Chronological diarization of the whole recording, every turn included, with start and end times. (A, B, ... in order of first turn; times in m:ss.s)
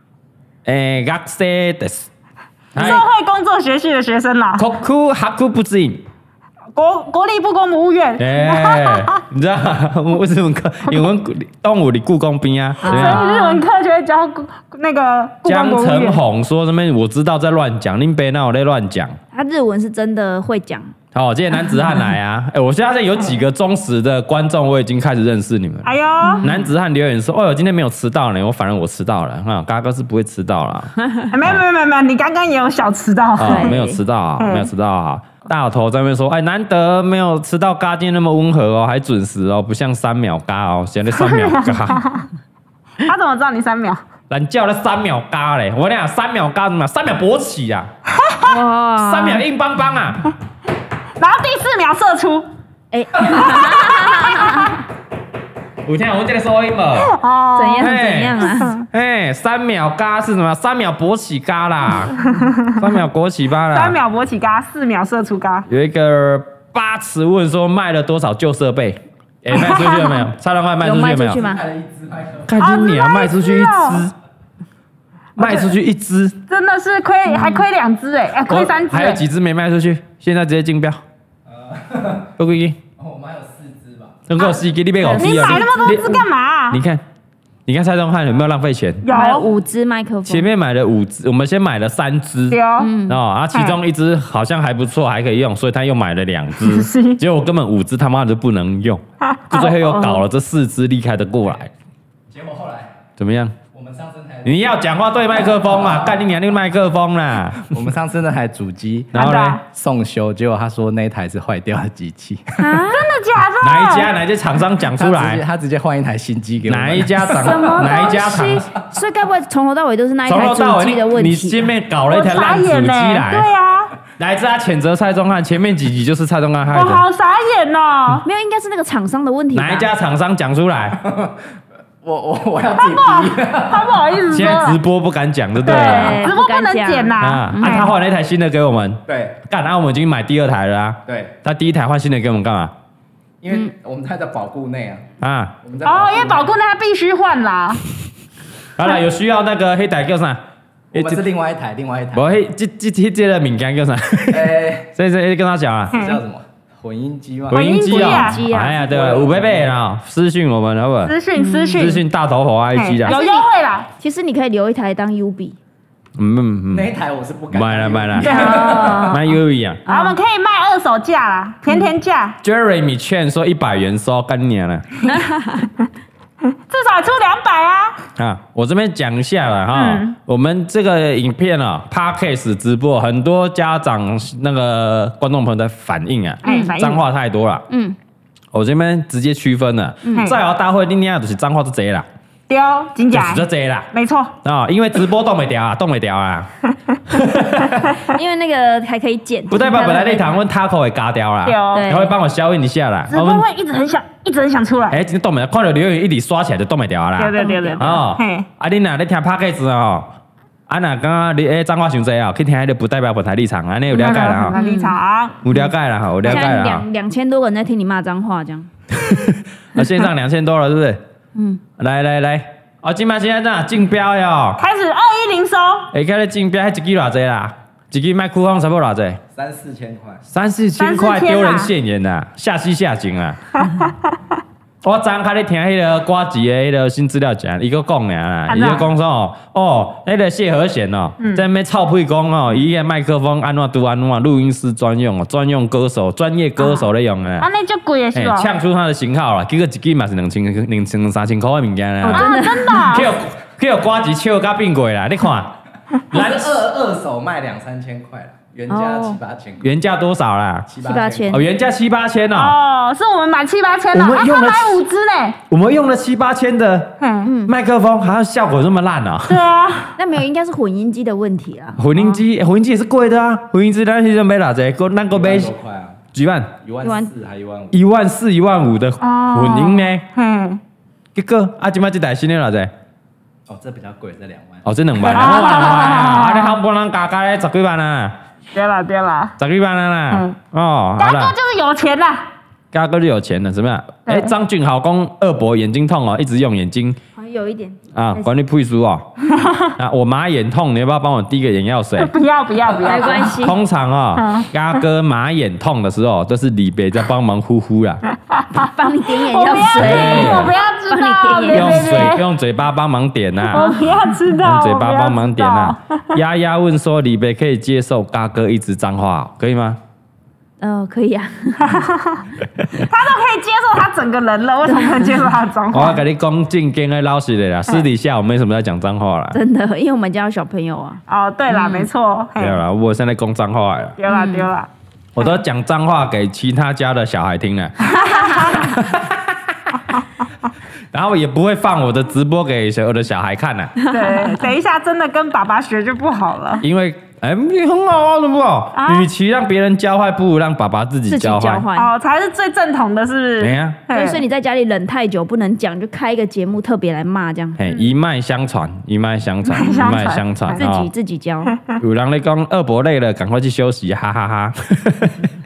0:00.6-0:02.1 A
0:02.7-0:03.0 A
0:02.8-0:04.7 B
0:02.8-0:03.0 C
0:04.6-0:06.0 A
0:06.8-0:09.2 B
0:08.2-0:13.2 A
0:12.8-0:13.6 C
0:12.8-0:16.2 B
0:15.5-0:19.2 A
0:19.3-0:20.9 C
0:21.1-0:25.9 A
0:25.8-0:26.5 B
0:26.2-0:26.6 C
0:26.4-0:31.6 A
0:31.3-0:33.8 B
0:33.4-0:42.1 A
0:33.4-0:34.0 C
0:34.4-0:34.7 B
0:41.1-0:42.3 B
0:43.0-0:44.0 B
0:44.3-0:47.9 A
0:48.2-0:48.5 B
0:48.4-0:49.4 C
0:49.0-0:50.2 A
0:51.2-0:52.5 B
0:52.9-0:54.8 C
0:53.2-0:54.5 B
0:55.8-0:57.1 A
0:57.0-0:57.9 B
0:57.6-0:58.8 C
0:57.8-1:04.0 A
1:02.3-1:02.8 B
1:03.7-1:05.7 B
1:05.7-1:11.4 A
1:09.5-1:10.2 B
1:10.8-1:11.6 C
1:11.3-1:12.5 D
1:12.5-1:14.1 A
1:12.6-1:14.0 B
1:15.4-1:15.7 B
1:15.4-1:16.4 A
1:16.5-1:19.2 B
1:17.3-1:17.6 C
1:18.5-1:21.0 A
1:21.5-1:22.3 D
1:22.4-1:22.8 A
1:23.0-1:24.2 D
1:24.3-1:27.0 A
1:25.0-1:25.7 C
1:25.1-1:26.8 B
1:27.7-1:29.0 A
1:29.0-1:29.5 B
1:29.1-1:30.5 C
1:30.3-1:41.7 A
1:32.5-1:32.9 B
1:32.8-1:33.2 C
1:36.6-1:37.2 B
1:39.2-1:39.6 B
1:39.6-1:40.2 C
1:42.3-1:42.9 D
1:43.2-1:43.6 A
1:43.7-1:44.6 D
1:44.4-1:47.8 A
1:45.4-1:46.2 D
1:47.6-1:52.8 D
1:49.1-1:49.6 A
1:49.2-1:49.6 B
1:52.6-1:53.1 C
1:52.9-1:54.1 B
1:53.6-1:55.4 A
1:54.9-1:58.3 D
1:56.7-1:58.7 A
1:57.2-2:01.7 C
2:00.3-2:03.5 A
2:02.1-2:03.9 B
2:04.2-2:07.0 A
2:06.7-2:08.2 B
2:08.2-2:09.9 C
2:09.5-2:11.0 A
2:11.0-2:11.4 D
2:12.0-2:14.2 D
2:12.8-2:14.8 B
2:14.3-2:16.3 A
2:15.6-2:17.9 B
2:15.6-2:17.9 C
2:17.2-2:22.7 A
2:19.1-2:19.4 D
2:21.1-2:21.3 D
2:23.4-2:25.0 D
2:25.2-2:25.6 A
2:25.6-2:26.5 D
2:25.8-2:27.8 B
2:28.8-2:30.4 A
2:30.9-2:31.2 A
2:30.9-2:32.4 D
2:32.1-2:36.0 A
2:34.3-2:34.9 D
2:35.9-2:36.2 B
2:35.9-2:38.1 D
2:37.5-2:41.2 A
2:37.5-2:38.4 B
2:38.0-2:38.8 C
2:38.7-2:39.7 D
2:41.1-2:42.0 B
2:41.4-2:42.0 C
2:41.7-2:43.2 A
2:42.7-2:43.9 B
2:43.1-2:43.5 C
2:44.0-2:45.6 C
2:46.2-2:46.9 A
2:46.7-2:49.2 D
2:47.5-2:49.8 A
2:48.2-2:49.1 B
2:48.3-2:49.2 C
2:49.9-2:50.2 C
2:49.9-2:52.4 B
2:52.4-2:54.9 A
2:55.1-2:55.7 C
2:56.7-2:58.0 B
2:58.2-3:07.7 A
2:59.7-3:00.2 B
3:06.4-3:07.0 B
3:06.4-3:06.8 C
3:07.7-3:08.0 C
3:08.5-3:12.1 A
3:10.0-3:10.3 C
3:12.5-3:14.4 B
3:13.1-3:13.9 A
3:14.4-3:16.5 A
3:17.1-3:18.0 A
3:18.0-3:20.4 C
3:19.5-3:23.5 A
3:21.4-3:21.9 B
3:21.7-3:22.1 C
3:23.1-3:25.0 B
3:24.9-3:30.1 A
3:27.2-3:28.5 B
3:27.4-3:28.0 C
3:30.7-3:34.6 A
3:33.9-3:35.4 B
3:34.0-3:35.0 C
3:35.4-3:36.8 A
3:36.2-3:38.7 C
3:38.9-3:41.0 A
3:41.4-3:41.6 C
3:41.8-3:44.6 A
3:44.6-3:45.9 B
3:45.9-3:49.2 A
3:49.3-3:50.2 D
3:50.3-3:53.4 A
3:50.8-3:51.7 B
3:53.6-3:54.1 B
3:54.8-4:07.5 A
3:58.5-3:58.9 B
4:01.2-4:01.4 B
4:07.4-4:08.5 B
4:08.1-4:15.5 A
4:12.0-4:12.9 C
4:12.0-4:13.1 B
4:16.1-4:19.7 D
4:16.1-4:16.6 A
4:18.7-4:19.2 C
4:19.6-4:20.7 A
4:20.7-4:21.4 D
4:20.8-4:21.4 C
4:21.3-4:22.6 A
4:22.4-4:25.4 B
4:23.9-4:24.8 A
4:25.5-4:29.4 A
4:27.0-4:27.3 B
4:27.2-4:27.5 C
4:29.3-4:29.9 B
4:30.0-4:32.2 C
4:31.8-4:35.5 A
4:35.1-4:36.0 D
4:36.1-4:36.5 A
4:36.6-4:37.8 D
4:36.8-4:37.1 C
4:37.7-4:40.0 A
4:39.0-4:40.6 B
4:41.2-4:42.7 A
4:43.5-4:44.6 D
4:44.6-4:48.2 A
4:45.1-4:46.5 B
4:48.5-4:49.4 B
4:49.4-4:51.4 A
4:50.1-4:50.4 B
4:51.0-4:52.3 B
4:52.7-4:57.0 A
4:54.1-4:54.3 B
4:57.2-4:58.3 C
4:57.9-4:59.1 A
4:59.4-4:59.7 B
4:59.8-5:02.2 A
5:02.0-5:03.3 B
5:02.8-5:03.6 C
5:03.1-5:08.0 A
5:04.2-5:04.5 B
5:08.3-5:12.3 B
5:08.5-5:12.2 C
5:09.8-5:10.5 A
5:11.5-5:13.7 A
5:13.5-5:13.8 C
5:13.5-5:16.2 B
5:14.4-5:19.8 A
5:20.6-5:21.8 C
5:21.6-5:22.3 B
5:22.8-5:26.0 B
5:24.7-5:25.1 C
5:25.7-5:29.4 A
5:29.3-5:31.9 C
5:31.1-5:32.6 B
5:32.4-5:34.0 A
5:34.0-5:34.7 B
5:34.1-5:34.5 C
5:35.2-5:39.6 A
5:38.0-5:38.6 C
5:38.2-5:38.6 B
5:40.9-5:43.7 A
5:43.8-5:44.4 C
5:43.9-5:46.6 B
5:46.6-5:51.6 A
5:48.7-5:49.1 B
5:51.1-5:51.9 C
5:51.8-5:54.2 B
5:53.4-5:53.8 A
5:53.9-5:57.6 C
5:57.6-6:00.9 A
5:59.5-6:00.6 B
6:00.5-6:01.6 C
6:01.8-6:05.3 A